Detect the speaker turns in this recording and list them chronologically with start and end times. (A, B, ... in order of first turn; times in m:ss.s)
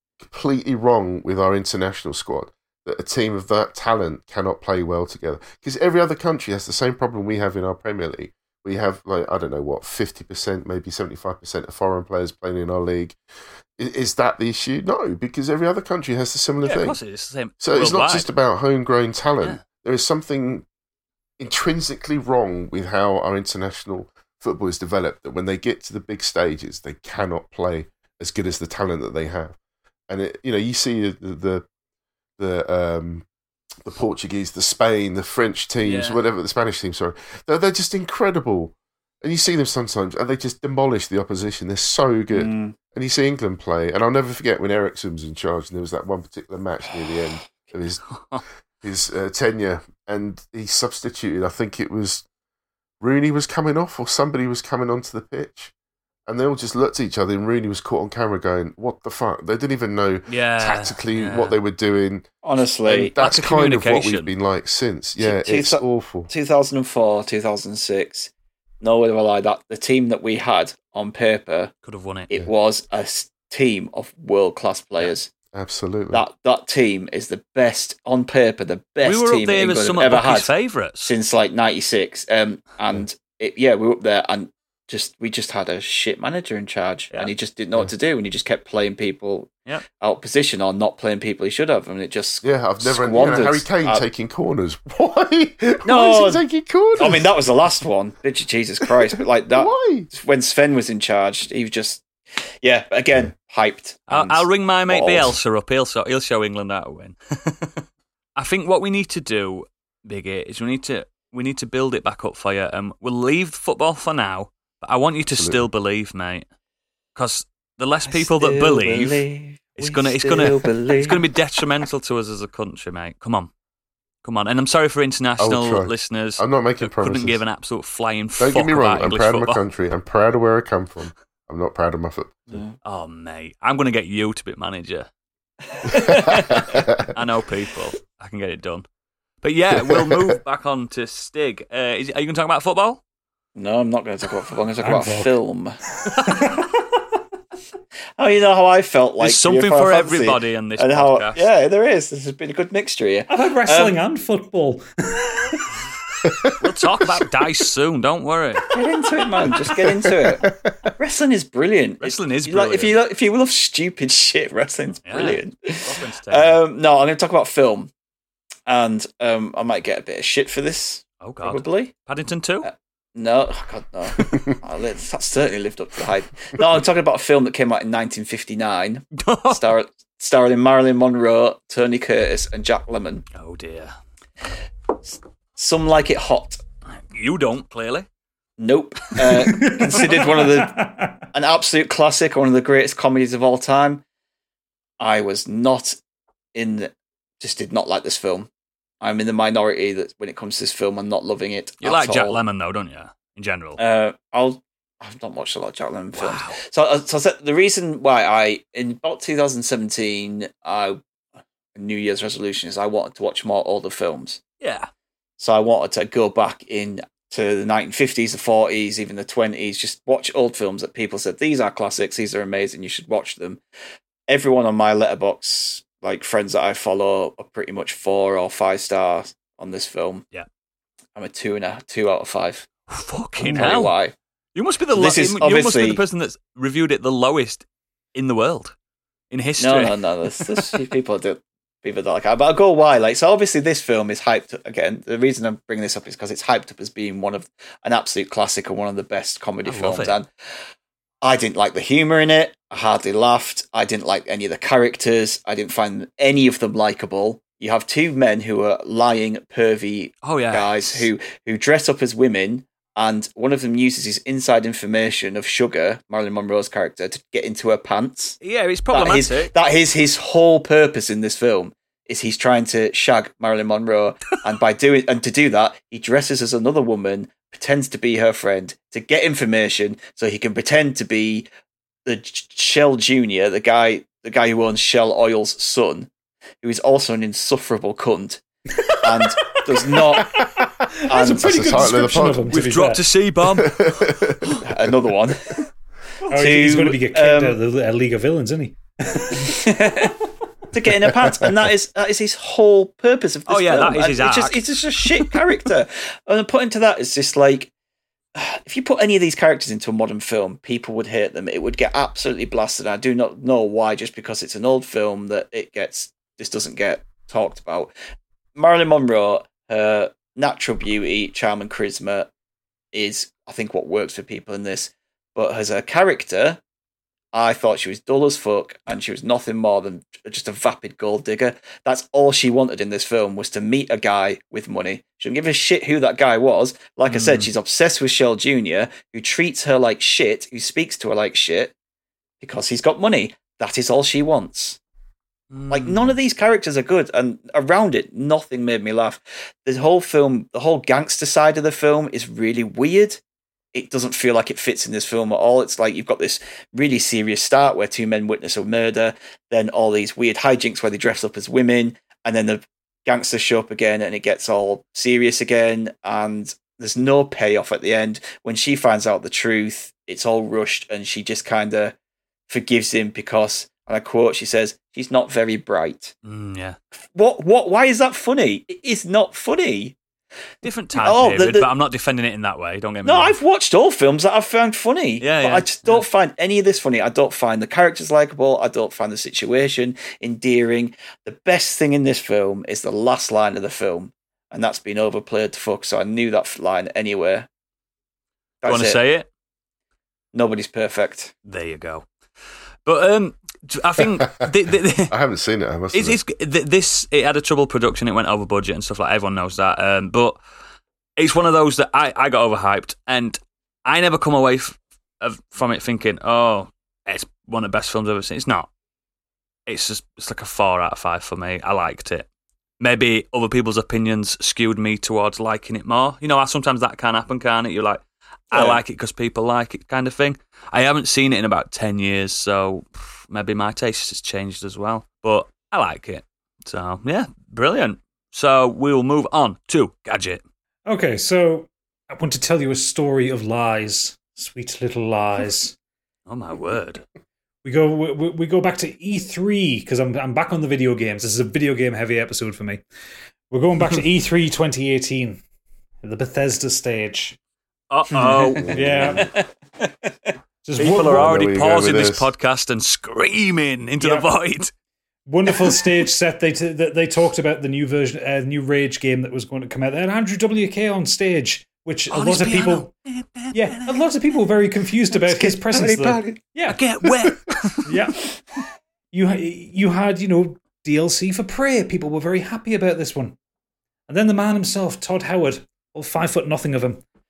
0:00.2-0:13.2 A
0:13.8-0:17.0 A
0:16.6-0:18.3 B
0:17.6-0:20.6 A
0:21.4-0:29.6 A
0:30.1-0:31.6 A
0:32.4-0:33.2 A
0:33.8-0:48.0 A
0:35.8-0:36.2 B
0:42.3-0:42.8 C
0:48.1-0:48.4 B
0:48.8-0:52.2 A
0:53.0-0:55.7 A
0:56.3-1:02.3 A
1:00.3-1:01.6 B
1:02.4-1:03.1 C
1:02.8-1:06.3 A
1:03.0-1:04.3 B
1:05.2-1:11.7 C
1:11.8-1:12.3 B
1:12.3-1:15.3 C
1:15.5-1:16.2 A
1:16.1-1:34.0 C
1:19.0-1:21.1 B
1:32.4-1:37.3 A
1:35.8-1:36.4 C
1:37.0-1:42.0 C
1:39.5-1:40.1 A
1:42.6-1:45.4 C
1:44.1-1:47.8 B
1:48.4-1:56.4 B
1:55.3-1:55.7 A
1:57.1-1:59.2 B
1:58.1-2:01.2 C
1:59.8-2:03.5 B
2:04.2-2:09.6 B
2:05.4-2:07.4 A
2:08.4-2:12.6 A
2:12.8-2:15.1 B
2:15.8-2:18.8 B
2:16.0-2:16.9 A
2:19.4-2:23.0 B
2:19.9-2:20.3 A
2:23.5-2:25.8 C
2:24.8-2:25.3 D
2:26.2-2:26.8 D
2:28.2-2:34.0 C
2:29.2-2:31.4 B
2:33.3-2:35.7 D
2:36.6-2:38.6 B
2:38.7-2:47.9 C
2:40.4-2:40.7 A
2:42.0-2:42.9 B
2:45.0-2:46.6 B
2:48.7-2:51.9 C
2:51.2-2:52.7 B
2:52.6-3:03.2 C
2:59.2-2:59.6 B
3:03.3-3:03.9 B
3:05.0-3:06.6 C
3:06.9-3:08.1 B
3:08.6-3:10.8 C
3:09.3-3:11.2 D
3:11.3-3:14.0 C
3:15.0-3:16.0 C
3:16.5-3:18.5 C
3:19.0-3:22.4 C
3:21.8-3:23.8 B
3:23.8-3:31.0 C
3:26.1-3:26.6 B
3:31.7-3:34.4 C
3:34.6-3:34.9 B
3:35.4-3:43.6 C
3:44.3-3:50.2 C
3:51.1-3:52.7 C
3:52.9-3:53.9 B
3:53.4-3:54.1 C
3:54.5-3:58.7 B
3:54.9-3:56.0 C
3:59.3-4:00.8 B
3:59.6-4:10.3 C
4:09.6-4:10.1 B
4:11.2-4:41.5 C
4:20.2-4:21.1 B
4:28.4-4:29.5 B
4:42.0-4:46.1 C
4:46.6-4:48.4 C
4:48.9-4:53.0 D
4:48.9-4:51.6 C
4:51.2-4:52.6 A
4:52.4-4:54.6 B
4:53.5-4:54.9 A
4:54.6-4:55.6 C
4:56.3-5:00.1 D
4:56.3-4:57.6 C
4:59.4-5:00.1 C
5:00.7-5:07.7 C
5:03.5-5:04.6 B
5:08.3-5:17.9 C
5:18.5-5:22.3 C
5:22.9-5:26.6 C
5:27.3-5:41.7 C
5:37.1-5:37.5 B
5:42.4-5:44.8 C
5:45.5-5:46.2 B
5:45.7-5:53.2 C
5:53.7-6:11.9 C
6:12.5-6:16.1 C
6:16.2-6:16.8 B
6:17.1-6:20.0 C
6:20.6-6:23.4 B
6:20.9-6:21.7 C
6:23.0-6:37.5 C
6:25.2-6:26.0 B
6:38.6-6:39.0 C
6:38.6-6:39.3 B
6:40.3-6:41.3 C
6:41.4-6:42.1 B
6:42.8-6:45.1 B
6:45.1-6:46.2 A
6:45.9-6:50.4 B
6:51.2-6:58.7 B
6:59.7-7:02.3 B
7:02.8-7:20.4 B
7:08.5-7:08.8 C
7:20.8-7:25.7 D
7:26.3-7:27.0 B
7:27.6-7:32.8 D
7:33.5-7:35.4 D
7:36.0-7:37.4 D
7:37.9-7:39.3 B
7:38.2-7:39.4 D
7:38.6-7:39.3 A
7:40.6-7:41.4 D
7:40.8-7:44.7 B
7:40.9-7:42.3 A
7:44.0-7:44.3 D
7:45.2-7:52.9 D
7:52.1-7:54.0 B
7:53.5-7:56.8 D
7:55.2-7:56.4 C
7:56.6-7:58.0 B
7:57.8-7:58.3 D
7:59.1-8:03.4 D
8:04.1-8:07.0 D